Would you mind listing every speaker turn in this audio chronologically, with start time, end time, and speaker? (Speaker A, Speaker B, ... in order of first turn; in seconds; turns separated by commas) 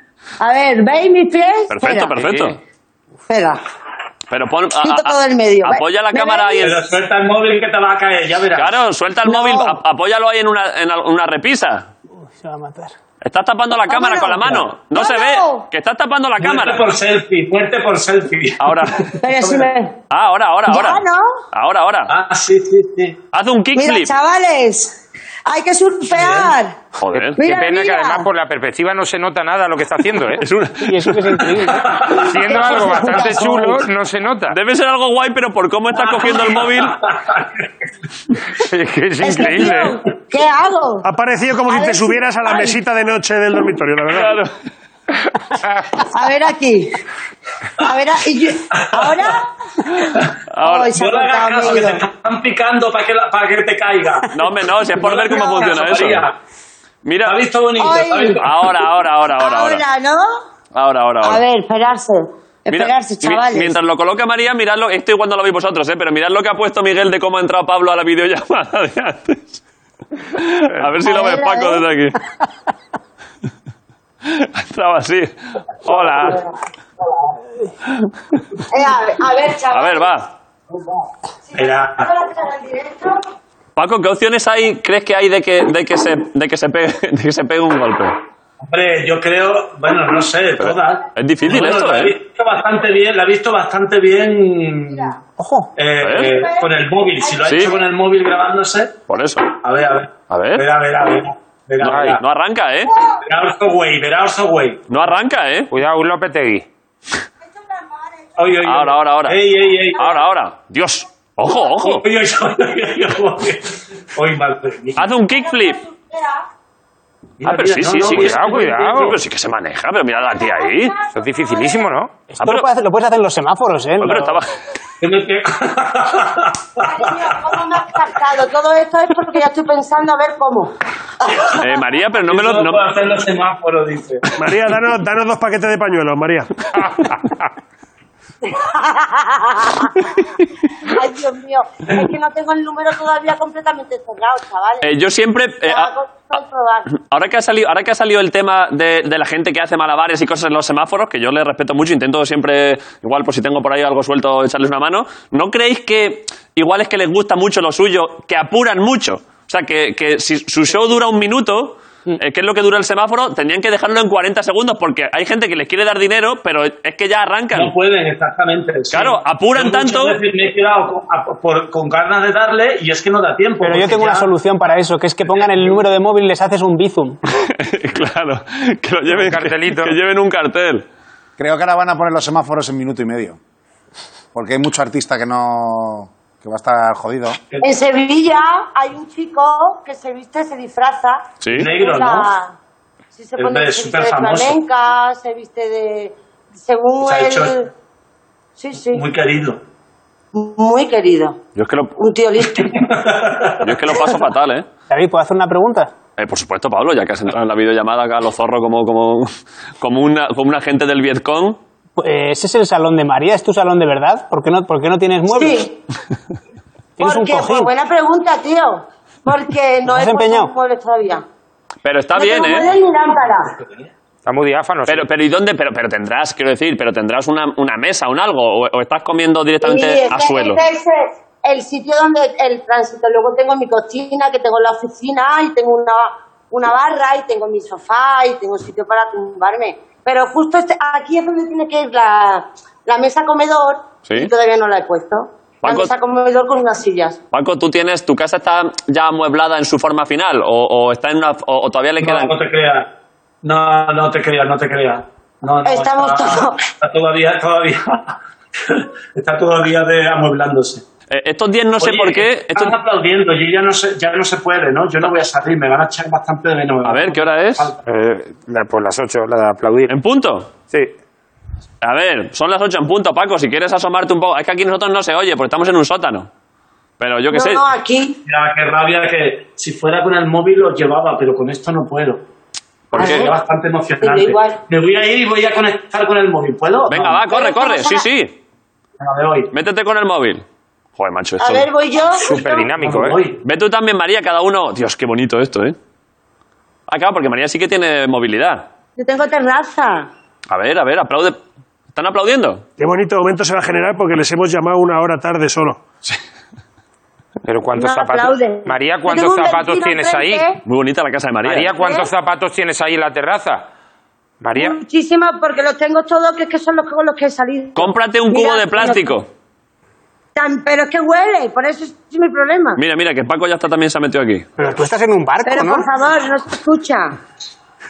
Speaker A: 0.4-2.1, Speaker B: 1.7-2.6, Speaker C: 2.2-2.6, Speaker A: 3.3-3.6, Speaker B: 4.3-6.8, Speaker A: 4.8-6.8, Speaker D: 6.6-8.8, Speaker B: 8.5-11.9, Speaker A: 9.2-9.8, Speaker E: 12.2-12.9, Speaker B: 13.2-16.9, Speaker A: 13.9-15.7, Speaker D: 16.4-19.7, Speaker B: 18.6-19.1, Speaker A: 19.2-20.0, Speaker B: 20.1-22.1, Speaker A: 20.7-21.4, Speaker D: 22.1-23.2, Speaker B: 23.3-24.1, Speaker A: 23.7-26.8, Speaker D: 26.1-26.5, Speaker B: 26.9-27.4, Speaker A: 27.4-28.3, Speaker C: 27.4-30.4, Speaker B: 30.4-31.5, Speaker E: 30.8-31.9, Speaker D: 31.6-32.9, Speaker C: 32.2-34.5, Speaker A: 32.4-33.8, Speaker B: 34.5-37.0, Speaker D: 36.0-37.6, Speaker C: 38.6-40.0, Speaker A: 39.2-41.1, Speaker F: 41.0-44.4, Speaker A: 41.7-42.8, Speaker B: 44.1-44.5, Speaker C: 45.6-45.9, Speaker A: 46.0-47.0, Speaker A: 47.8-49.5, Speaker D: 48.7-49.4, Speaker B: 50.5-50.9, Speaker A: 50.6-52.0, Speaker D: 50.9-54.3, Speaker B: 54.3-56.3, Speaker D: 54.9-56.4, Speaker B: 57.0-57.4, Speaker D: 57.2-58.7, Speaker A: 57.8-58.4, Speaker B: 58.4-59.8, Speaker A: 59.4-60.4, Speaker B: 60.7-61.4, Speaker A: 61.2-63.8, Speaker B: 62.7-69.6, Speaker B: 70.3-72.2, Speaker A: 71.0-71.8, Speaker B: 74.2-76.4, Speaker A: 78.7-80.2, Speaker B: 79.7-80.3, Speaker A: 81.5-83.2, Speaker D: 81.5-82.1, Speaker B: 83.8-88.2, Speaker D: 88.7-95.1, Speaker B: 90.6-92.1, Speaker E: 95.4-95.7, Speaker D: 95.8-99.0, Speaker B: 96.0-96.3, Speaker B: 97.4-97.8, Speaker B: 99.1-99.5, Speaker D: 99.6-102.2, Speaker B: 100.3-100.6, Speaker B: 101.8-102.9, Speaker C: 101.8-102.2, Speaker D: 103.2-104.8, Speaker B: 104.9-105.7, Speaker C: 105.7-106.7, Speaker A: 107.5-108.3, Speaker D: 108.4-110.1, Speaker B: 108.6-109.5, Speaker B: 110.0-112.0, Speaker D: 111.8-115.1, Speaker B: 115.0-115.8, Speaker A: 115.3-116.4, Speaker D: 117.4-119.1, Speaker B: 117.4-120.9, Speaker C: 118.0-119.2, Speaker A: 120.4-121.0, Speaker C: 121.1-122.1, Speaker E: 122.3-124.4, Speaker B: 122.4-122.7, Speaker B: 124.0-124.5, Speaker D: 125.0-127.6, Speaker A: 126.8-130.7, Speaker B: 131.6-132.9, Speaker D: 132.2-134.3, Speaker F: 134.4-136.5, Speaker A: 138.4-140.1, Speaker A: 140.8-144.9, Speaker B: 144.8-145.9, Speaker A: 145.6-146.9, Speaker B: 146.9-167.7, Speaker D: 167.5-174.3, Speaker B: 168.9-170.2, Speaker E: 173.6-177.2, Speaker D: 175.3-175.8, Speaker B: 177.4-180.8, Speaker C: 179.1-179.9, Speaker G: 181.4-183.4, Speaker G: 184.3-187.4, Speaker A: 187.6-192.5, Speaker B: 191.4-191.7, Speaker D: 191.5-192.3, Speaker A: 193.1-197.7, Speaker D: 193.4-194.6, Speaker D: 197.0-197.6, Speaker A: 198.6-199.0, Speaker D: 198.9-199.6, Speaker A: 200.3-201.4, Speaker B: 201.6-201.9, Speaker A: 202.0-202.8, Speaker D: 202.5-203.9, Speaker B: 203.6-204.7, Speaker E: 204.9-205.9, Speaker B: 206.2-211.6, Speaker E: 212.0-215.6, Speaker A: 215.3-215.8, Speaker E: 217.0-217.7, Speaker A: 217.0-221.2, Speaker E: 219.8-220.5, Speaker B: 221.8-222.7, Speaker A: 222.1-223.5, Speaker C: 224.2-225.1, Speaker B: 224.9-230.6, Speaker A: 229.6-247.2, Speaker B: 244.1-244.3, Speaker B: 245.6-245.9, Speaker B: 247.3-252.3, Speaker D: 252.0-252.9, Speaker D: 253.4-260.8, Speaker A: 255.6-256.6, Speaker B: 261.1-262.8, Speaker D: 261.8-267.8, Speaker B: 266.8-267.7, Speaker C: 267.8-269.9, Speaker B: 269.9-270.5, Speaker B: 271.8-276.3, Speaker B: 277.0-277.6, Speaker A: 277.3-278.2, Speaker D: 278.2-282.2, Speaker B: 282.9-283.3, Speaker D: 282.9-287.2, Speaker A: 283.0-283.3, Speaker A: 284.0-284.6, Speaker B: 286.9-288.3, Speaker A: 287.3-288.1, Speaker D: 289.0-289.5, Speaker B: 289.5-290.4, Speaker B: 291.0-291.7, Speaker A: 291.4-292.7, Speaker C: 292.1-293.2, Speaker D: 292.8-293.4, Speaker B: 293.4-295.8, Speaker B: 296.9-298.7, Speaker A: 299.0-300.1, Speaker B: 300.5-301.4, Speaker B: 301.9-302.6, Speaker F: 302.8-305.8, Speaker C: 307.4-310.4, Speaker A: 307.7-310.6, Speaker B: 310.6-311.7, Speaker C: 311.4-313.6, Speaker A: 311.7-312.1, Speaker C: 314.4-314.8, Speaker A: 314.5-319.2, Speaker B: 317.7-319.3, Speaker A: 320.3-322.8, Speaker B: 322.8-324.5, Speaker E: 324.6-325.9, Speaker A: 325.4-327.2